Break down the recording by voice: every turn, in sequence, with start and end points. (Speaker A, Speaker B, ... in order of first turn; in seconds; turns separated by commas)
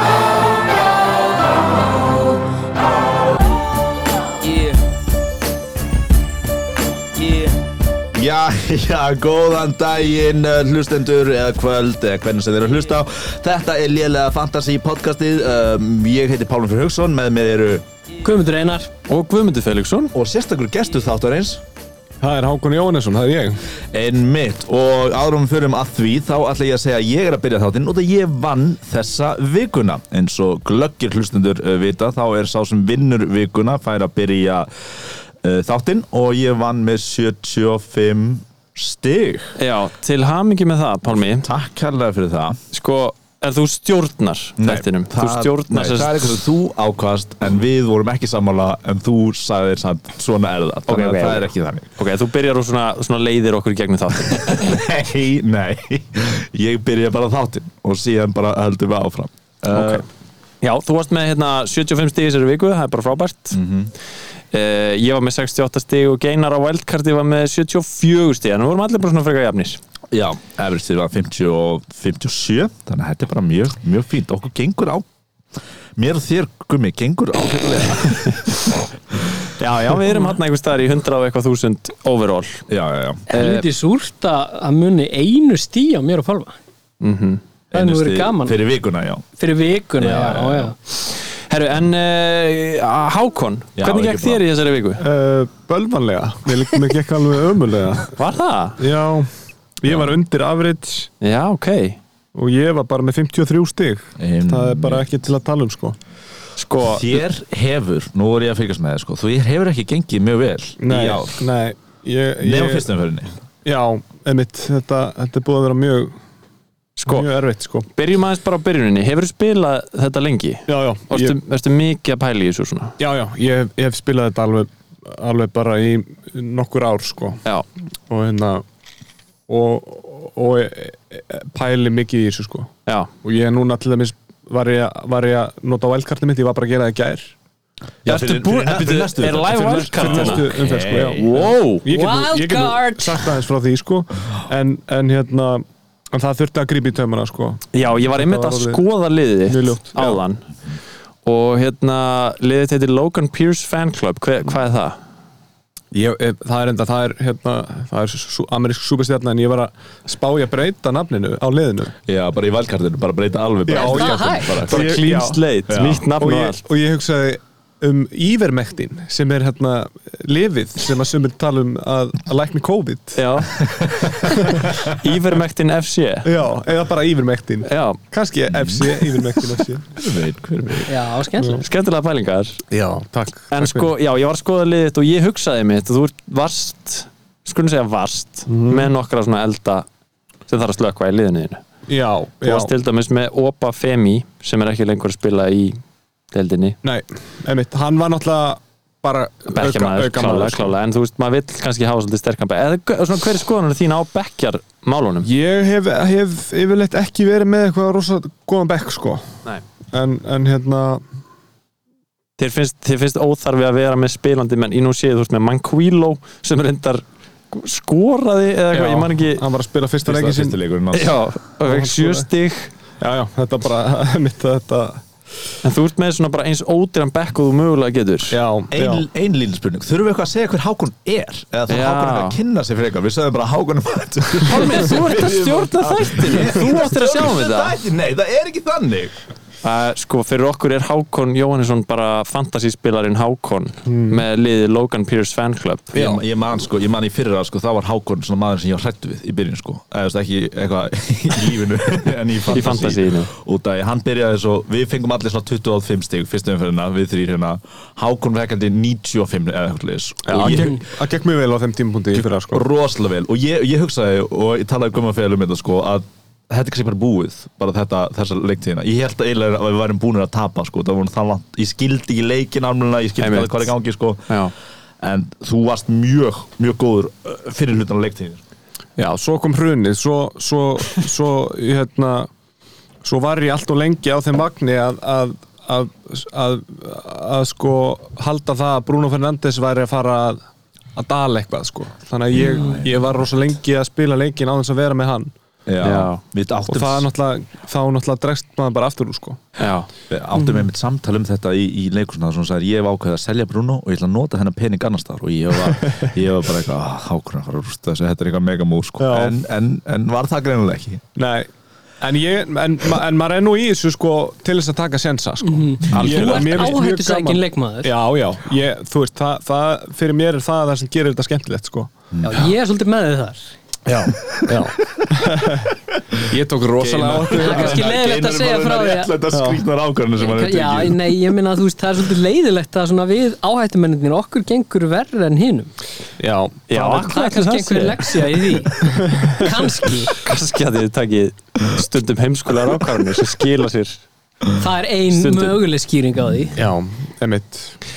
Speaker A: 8.1-17.8, Speaker B: 18.2-18.9, Speaker C: 19.1-20.1, Speaker A: 20.1-21.6, Speaker D: 22.2-23.7, Speaker A: 23.9-39.5, Speaker C: 39.6-41.5, Speaker A: 41.4-42.6, Speaker C: 42.7-46.1, Speaker A: 44.6-51.9, Speaker C: 50.9-54.7, Speaker A: 54.5-60.0, Speaker C: 59.7-60.0, Speaker C: 60.6-63.6, Speaker A: 63.5-63.9, Speaker C: 64.5-69.8, Speaker A: 70.1-75.0, Speaker A: 76.0-78.5, Speaker C: 79.6-82.6, Speaker A: 82.7-83.2, Speaker C: 83.3-83.6, Speaker B: 83.3-86.5, Speaker C: 87.0-87.4, Speaker A: 87.7-89.2, Speaker B: 87.7-88.6, Speaker B: 89.4-90.7, Speaker A: 90.0-90.7, Speaker C: 91.0-95.0, Speaker A: 93.8-94.4, Speaker D: 95.0-98.1, Speaker C: 98.2-98.8, Speaker D: 98.8-101.1, Speaker A: 99.8-100.2, Speaker C: 101.2-102.0, Speaker D: 102.3-106.0, Speaker A: 104.2-105.1, Speaker C: 106.6-107.2, Speaker A: 106.8-111.4, Speaker D: 110.8-112.9, Speaker A: 112.4-113.3, Speaker D: 113.6-116.1, Speaker C: 117.0-117.3, Speaker D: 117.1-117.9, Speaker C: 117.9-123.0, Speaker D: 120.7-121.4, Speaker D: 123.0-127.4, Speaker D: 128.1-128.6, Speaker D: 129.5-132.7, Speaker C: 132.8-133.1, Speaker D: 133.2-137.3, Speaker A: 138.0-141.5, Speaker C: 138.1-140.5, Speaker D: 139.6-148.8, Speaker C: 141.2-141.9, Speaker B: 141.9-143.3, Speaker C: 147.7-150.4, Speaker D: 149.5-149.8, Speaker C: 151.2-154.9, Speaker D: 155.9-161.9, Speaker A: 162.1-164.9, Speaker D: 163.7-165.4, Speaker B: 163.8-164.6, Speaker C: 164.6-166.6, Speaker A: 165.7-166.1, Speaker D: 166.2-173.4, Speaker C: 173.1-173.6, Speaker A: 173.6-174.2, Speaker D: 174.1-174.9, Speaker C: 174.8-176.3, Speaker D: 176.2-179.9, Speaker C: 177.6-178.0, Speaker A: 178.5-179.0, Speaker A: 179.9-181.0, Speaker B: 180.9-181.6, Speaker C: 181.5-182.6, Speaker D: 182.7-183.9, Speaker C: 183.5-189.8, Speaker D: 188.5-188.9, Speaker C: 190.5-191.6, Speaker D: 191.9-192.7, Speaker C: 192.4-195.8, Speaker C: 196.3-196.8, Speaker D: 196.8-200.7, Speaker C: 199.5-205.3, Speaker D: 205.2-209.3, Speaker D: 209.9-211.0, Speaker C: 212.4-219.4, Speaker D: 218.7-220.6, Speaker A: 220.0-221.2, Speaker C: 220.9-222.7, Speaker D: 221.6-222.3, Speaker D: 223.0-225.0, Speaker C: 225.6-228.4, Speaker D: 228.3-229.0, Speaker A: 228.7-239.1, Speaker C: 231.7-232.4, Speaker C: 234.4-237.8, Speaker C: 239.6-246.0, Speaker D: 243.9-244.2, Speaker D: 245.9-246.2, Speaker A: 245.9-260.8, Speaker C: 252.4-253.3, Speaker D: 260.2-262.6, Speaker A: 262.1-274.4, Speaker C: 273.2-273.7, Speaker C: 274.3-274.5, Speaker A: 275.0-278.4, Speaker D: 279.0-282.3, Speaker D: 283.0-290.4, Speaker D: 290.9-295.3, Speaker A: 292.3-293.2, Speaker A: 295.6-297.1, Speaker C: 295.8-296.2, Speaker D: 296.7-299.6, Speaker C: 299.6-299.9, Speaker A: 300.1-311.0, Speaker B: 300.4-300.6, Speaker D: 309.0-309.3, Speaker D: 311.1-311.5, Speaker D: 312.0-321.9, Speaker B: 315.4-317.9, Speaker A: 315.9-316.2, Speaker C: 315.9-316.7, Speaker A: 322.1-322.5, Speaker B: 322.2-323.4, Speaker D: 323.9-325.7, Speaker D: 326.3-327.8, Speaker C: 326.8-327.5, Speaker A: 327.3-331.2, Speaker B: 327.4-329.1, Speaker D: 329.3-329.6, Speaker B: 330.2-335.7, Speaker D: 336.2-336.6, Speaker C: 336.7-338.1, Speaker B: 336.7-340.2, Speaker C: 340.1-344.0, Speaker B: 344.6-346.5, Speaker C: 345.1-345.6, Speaker D: 346.6-347.8